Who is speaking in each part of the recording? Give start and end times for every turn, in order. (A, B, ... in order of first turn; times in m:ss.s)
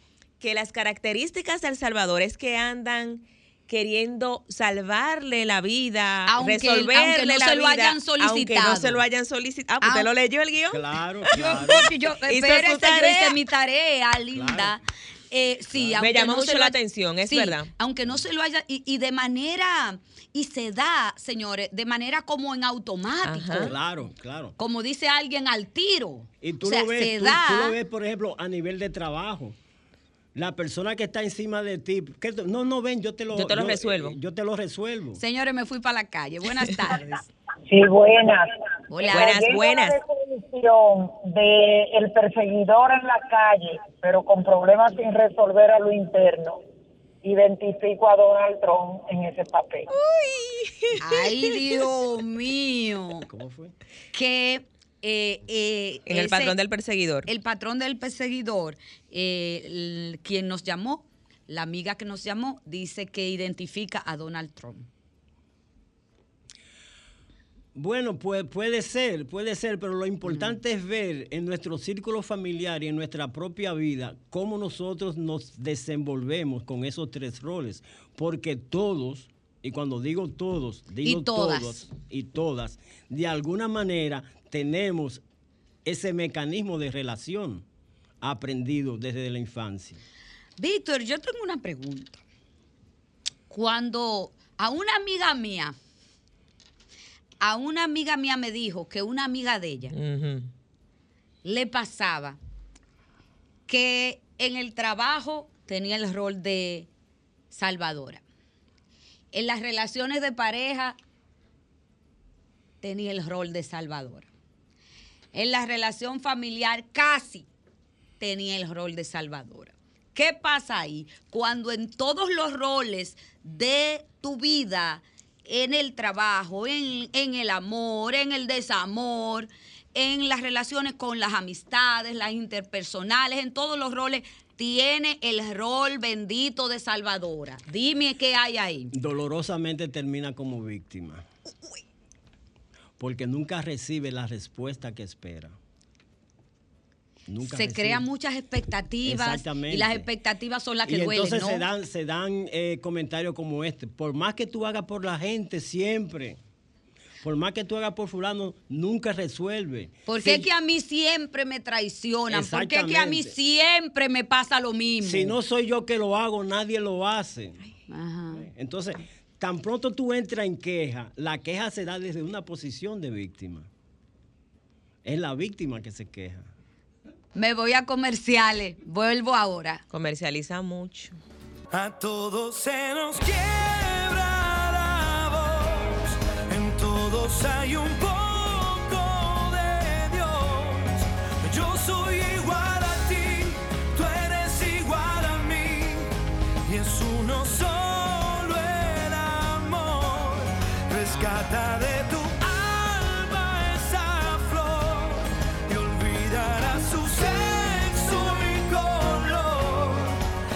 0:00.4-0:10.9 A
0:06.3-0:09.0 B
0:09.8-0:10.1 B
0:10.7-0:11.9 C
0:11.3-0:23.7 B
0:11.6-0:13.4 A
0:14.3-0:14.8 C
0:15.7-0:16.1 C
0:16.0-0:17.7 A
0:23.2-0:23.7 A
0:23.5-0:24.5 C
0:24.6-0:27.8 B
0:26.4-0:29.6 C
0:30.3-0:35.2 C
0:33.3-0:34.2 A
0:35.2-0:37.3 B
0:37.7-0:46.6 D
0:38.9-0:39.5 B
0:39.1-0:40.0 A
0:47.2-0:49.9 D
0:49.9-0:51.5 A
0:51.0-0:53.3 B
0:53.2-0:53.7 C
0:54.1-0:56.6 B
0:56.1-0:57.3 A
0:57.3-1:04.9 B
1:07.7-1:25.2 C
1:10.2-1:10.6 B
1:21.0-1:21.9 B
1:25.8-1:27.6 C
1:28.2-1:30.0 C
1:30.6-1:32.2 B
1:33.5-1:35.8 B
1:37.4-1:39.9 B
1:39.9-1:40.5 A
1:41.4-1:42.4 B
1:43.7-1:46.9 B
1:47.5-1:48.2 B
1:49.3-1:51.0 B
1:52.8-1:54.3 B
1:55.3-1:57.5 B
1:58.2-2:18.9 B
2:18.9-2:21.2 C
2:23.0-2:25.6 C
2:27.3-2:28.0 C
2:27.4-2:31.6 B
2:29.0-2:30.1 C
2:30.8-2:36.4 C
2:37.2-2:40.5 C
2:40.1-2:45.4 B
2:42.3-2:43.3 C
2:45.0-2:47.6 C
2:47.9-2:48.5 B
2:48.3-2:53.7 C
2:55.0-2:56.5 C
2:57.3-2:59.8 B
2:59.9-3:01.2 A
3:01.7-3:16.1 E
3:16.6-3:30.2 E